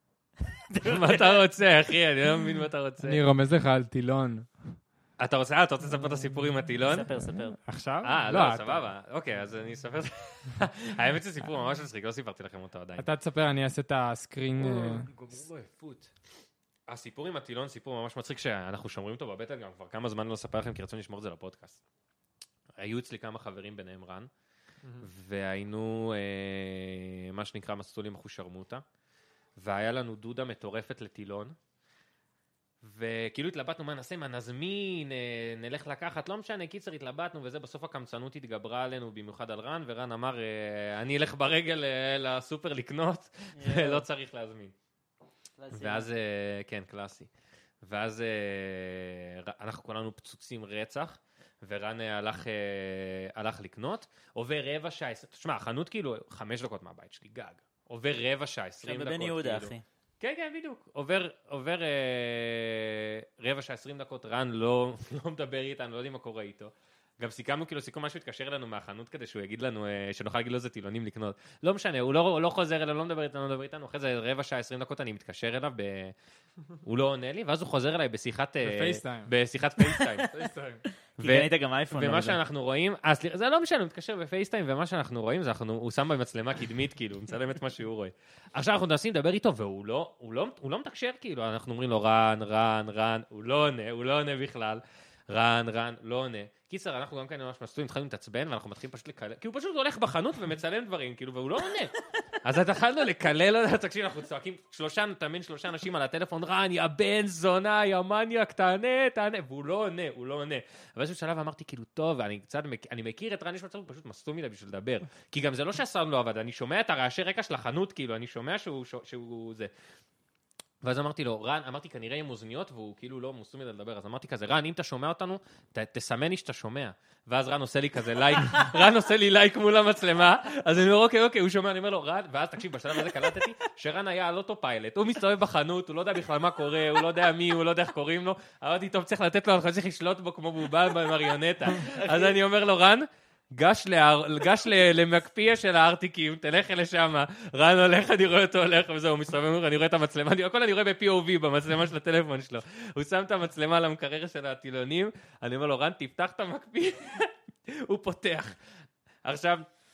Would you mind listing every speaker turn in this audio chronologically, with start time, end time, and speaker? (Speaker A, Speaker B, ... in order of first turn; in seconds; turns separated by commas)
Speaker A: 0.5-1.4, Speaker B: 0.8-3.2, Speaker C: 3.0-4.8, Speaker B: 5.2-7.1, Speaker A: 6.9-7.6, Speaker C: 7.6-8.8, Speaker B: 8.0-13.1, Speaker C: 13.0-15.1, Speaker B: 14.6-16.1, Speaker B: 16.9-21.8, Speaker B: 22.8-24.3, Speaker B: 25.0-28.8, Speaker B: 29.6-31.6, Speaker B: 32.8-44.7, Speaker A: 43.5-44.0, Speaker A: 45.6-46.1, Speaker B: 45.7-47.3, Speaker B: 47.8-76.1, Speaker A: 58.8-59.8, Speaker B: 76.8-80.5, Speaker C: 78.6-79.3, Speaker C: 80.3-80.8, Speaker A: 81.2-82.4, Speaker B: 81.2-119.7, Speaker B: 120.8-158.6, Speaker B: 159.2-159.7